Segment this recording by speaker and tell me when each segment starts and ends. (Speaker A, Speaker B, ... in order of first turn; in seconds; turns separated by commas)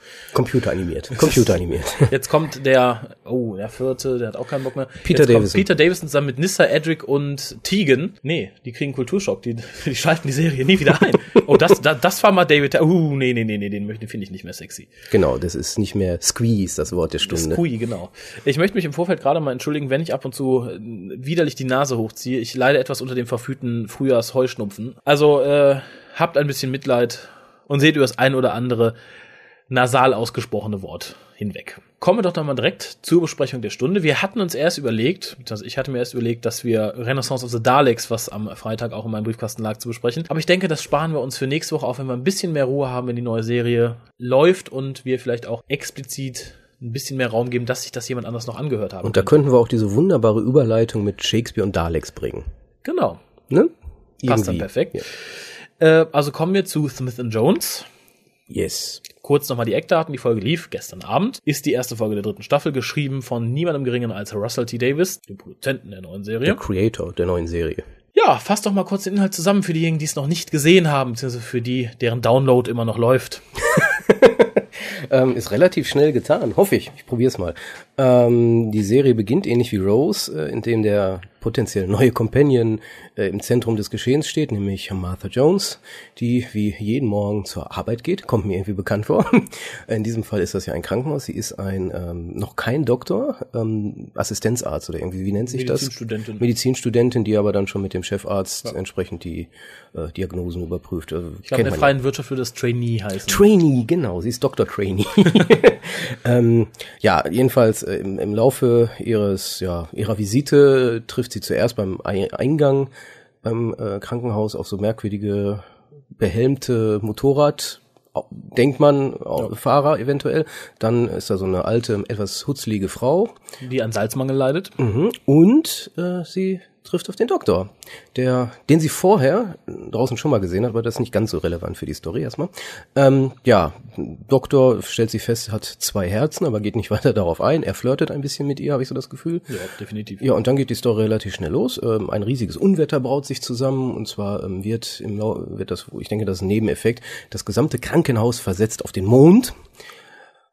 Speaker A: 0.3-2.1, Speaker B: 2.1-14.9, Speaker A: 5.0-5.7, Speaker A: 15.1-17.6, Speaker B: 17.2-28.9, Speaker B: 29.7-49.3, Speaker A: 49.0-52.5, Speaker B: 52.8-53.2, Speaker A: 53.5-55.0, Speaker B: 54.2-55.1, Speaker B: 55.8-57.9, Speaker A: 58.5-59.0, Speaker B: 59.1-66.6, Speaker A: 66.4-67.8, Speaker B: 68.1-73.4, Speaker A: 73.7-101.9, Speaker B: 95.5-96.4, Speaker B: 101.5-103.4, Speaker A: 103.3-112.9, Speaker A: 113.4-115.6, Speaker A: 116.2-123.3, Speaker B: 123.6-124.8, Speaker A: 124.8-139.5, Speaker B: 139.5-140.2, Speaker A: 140.2-149.5